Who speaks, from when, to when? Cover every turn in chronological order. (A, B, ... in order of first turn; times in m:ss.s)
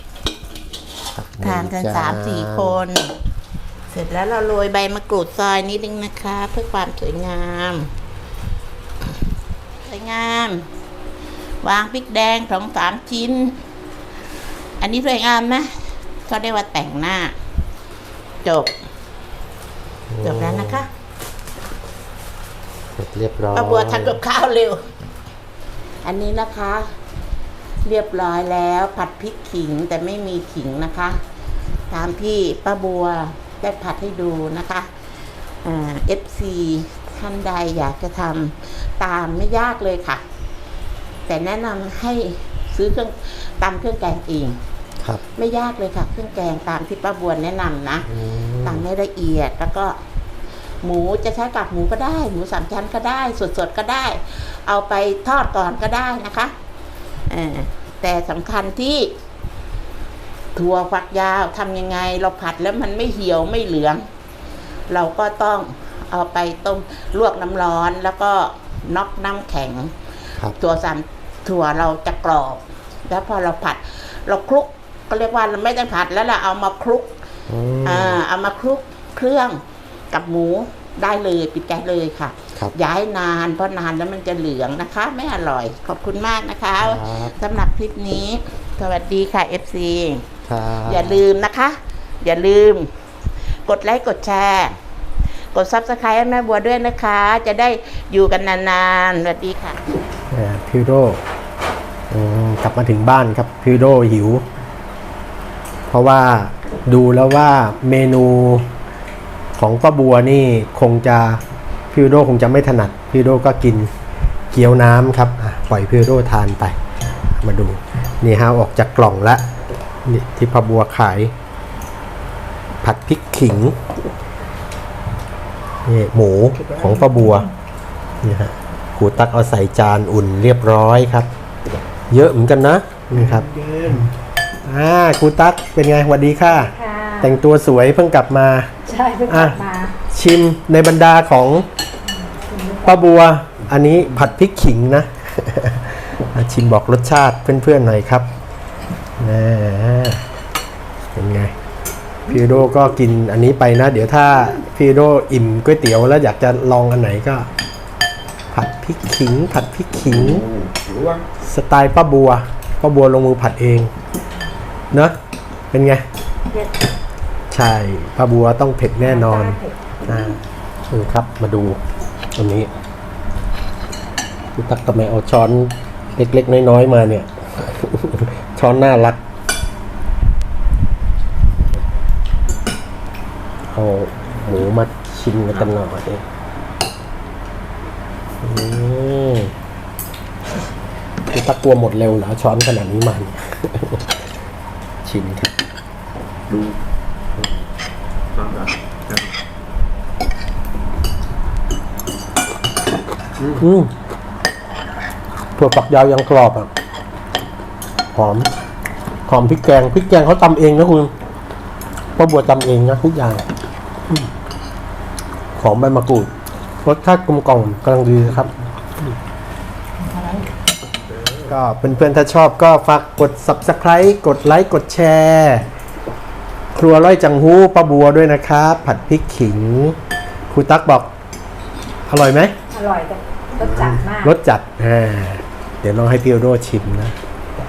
0:01.1-0:02.8 A
0:01.4-0:03.1 B
0:03.9-0:07.9 B
0:09.8-0:10.6 B
0:11.6-0:13.6 B
0:14.8-0:17.4 B
0:18.4-0:18.7 B
0:20.1-0:20.8 A
0:20.2-0:20.9 B
0:23.0-0:24.2 A
0:23.5-0:24.9 B
0:26.0-0:26.8 B
0:27.8-0:31.2 B
0:31.9-0:34.9 B
0:35.6-0:40.2 B
0:41.3-0:44.6 B
0:45.3-0:48.1 B
0:48.1-0:48.8 A
0:48.6-0:50.0 B
0:50.8-0:56.5 B
0:57.3-0:59.1 B
1:00.6-1:04.0 B
1:04.9-1:09.9 B
1:10.6-1:17.1 B
1:17.5-1:18.2 A
1:17.8-1:30.2 B
1:26.8-1:27.4 A
1:30.5-1:31.2 A
1:30.8-1:32.9 B
1:33.6-1:34.8 B
1:35.5-1:39.8 B
1:40.3-1:41.2 A
1:42.1-1:44.4 A
1:45.9-1:48.7 A
1:49.6-1:51.4 A
1:51.9-1:53.9 A
1:54.5-1:56.8 A
1:57.3-1:59.4 A
2:00.0-2:01.3 A
2:02.8-2:03.7 A
2:05.8-2:07.5 A
2:08.2-2:11.3 A
2:12.1-2:14.1 A
2:14.6-2:18.7 A
2:16.5-2:17.3 C
2:18.8-2:19.9 C
2:19.3-2:21.7 A
2:22.3-2:23.0 C
2:22.8-2:28.2 A
2:29.2-2:30.2 A
2:31.1-2:31.5 A
2:32.3-2:37.5 A
2:38.5-2:40.5 A
2:41.4-2:43.9 A
2:45.7-2:46.0 A
2:47.5-2:51.8 A
2:49.1-2:49.8 C
2:52.4-2:52.7 A
2:54.6-2:59.2 A
3:03.7-3:06.2 A
3:08.4-3:09.5 A
3:11.3-3:14.1 A
3:15.0-3:15.5 A
3:23.4-3:23.9 A
3:25.6-3:26.7 A
3:28.1-3:28.5 A
3:29.3-3:31.1 A
3:32.2-3:33.4 A
3:35.6-3:36.3 A
3:36.8-3:38.5 A
3:40.0-3:40.5 B
3:41.4-3:45.6 A
3:46.7-3:50.0 A
3:50.5-3:51.1 A
3:52.1-3:52.5 A
3:52.7-3:54.3 C
3:53.6-3:57.1 A